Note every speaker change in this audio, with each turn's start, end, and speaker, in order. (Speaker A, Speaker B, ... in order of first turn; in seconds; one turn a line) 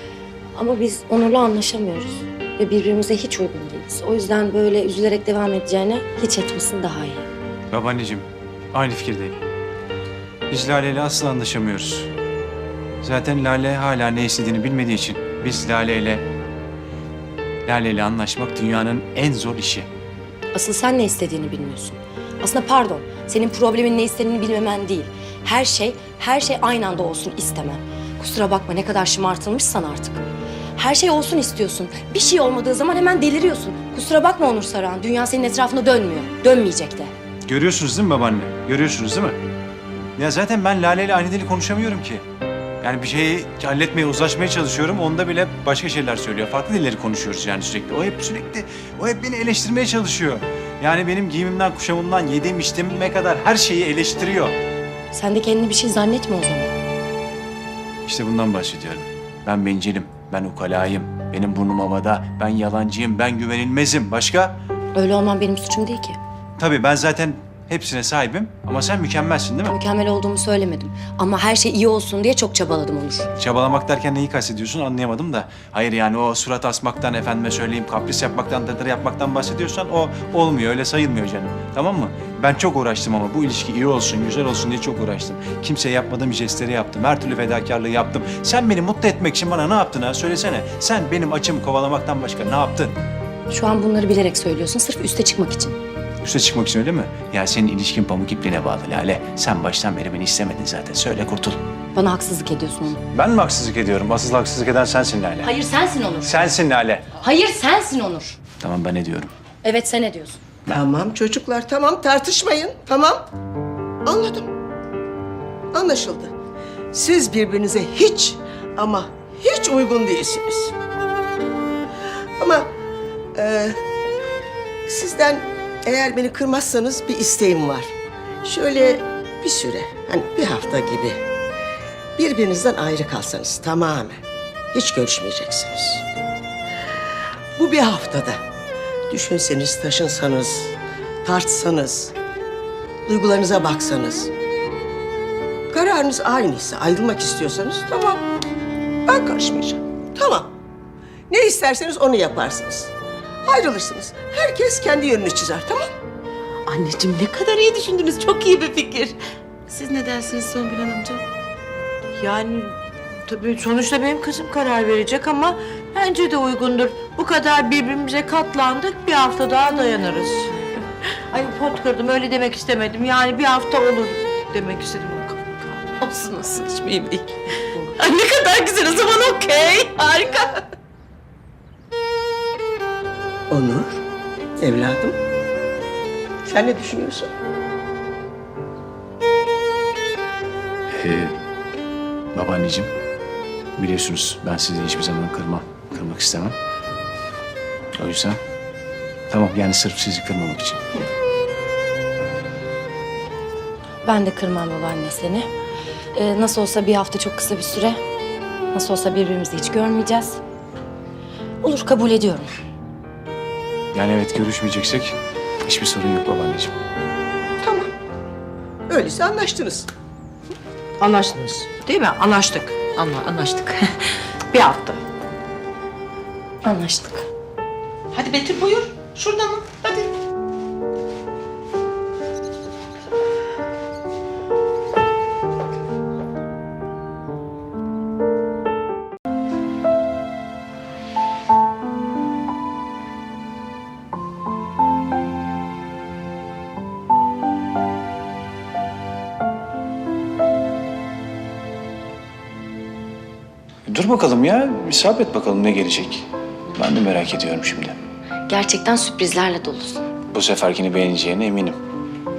Speaker A: 0.6-7.3
Speaker B: 7.7-9.3
Speaker B: 10.5-12.1
Speaker B: 13.0-16.2
Speaker B: 17.7-19.9
Speaker A: 20.5-30.2
Speaker A: 30.8-37.1
Speaker B: 37.5-39.4
Speaker B: 40.2-42.2
Speaker B: 42.8-54.6
Speaker A: 55.1-56.7
Speaker B: 58.1-64.6
Speaker A: 65.0-66.2
Speaker B: 66.6-69.8
Speaker A: 69.7-73.3
Speaker B: 73.4-93.0
Speaker A: 93.5-95.8
Speaker B: 96.2-101.6
Speaker A: 101.9-103.0
Speaker B: 103.1-105.5
Speaker A: 105.4-106.5
Speaker B: 106.2-107.0
Speaker A: 107.2-108.4
Speaker B: 108.6-109.3
Speaker A: 109.6-110.4
Speaker C: 110.7-113.2
Speaker C: 114.0-114.5
Speaker C: 115.7-116.3
Speaker C: 116.9-120.7
Speaker C: 122.4-122.7
Speaker C: 123.3-123.8
Speaker C: 124.9-131.2
Speaker C: 132.2-136.1
Speaker C: 137.6-138.4
Speaker C: 139.1-142.1
Speaker C: 143.1-144.3
Speaker C: 145.7-148.2
Speaker C: 149.1-150.5
Speaker C: 151.3-152.9
Speaker C: 153.4-155.9
Speaker D: 156.7-159.2
Speaker D: 159.7-161.2
Speaker E: 162.2-170.6
Speaker E: 171.3-176.0
Speaker D: 178.2-180.1
Speaker C: 183.5-184.0
Speaker C: 184.6-185.2
Speaker C: 186.4-187.3
Speaker B: 190.9-191.3
Speaker B: 192.3-192.9
Speaker B: 193.8-196.6
Speaker B: 198.0-198.4
Speaker B: 199.3-200.8
Speaker A: 204.0-205.5
Speaker A: 206.1-208.0
Speaker A: 208.7-210.4
Speaker A: 211.6-212.5
Speaker B: 213.9-216.7
Speaker C: 217.6-217.9
Speaker C: 218.9-219.9
Speaker E: 221.0-222.8
Speaker D: 222.8-224.0
Speaker E: 224.5-225.0
Speaker A: 226.6-227.3
Speaker D: 228.1-230.1
Speaker B: 253.9-258.0
Speaker A: 258.5-260.1
Speaker B: 260.3-261.8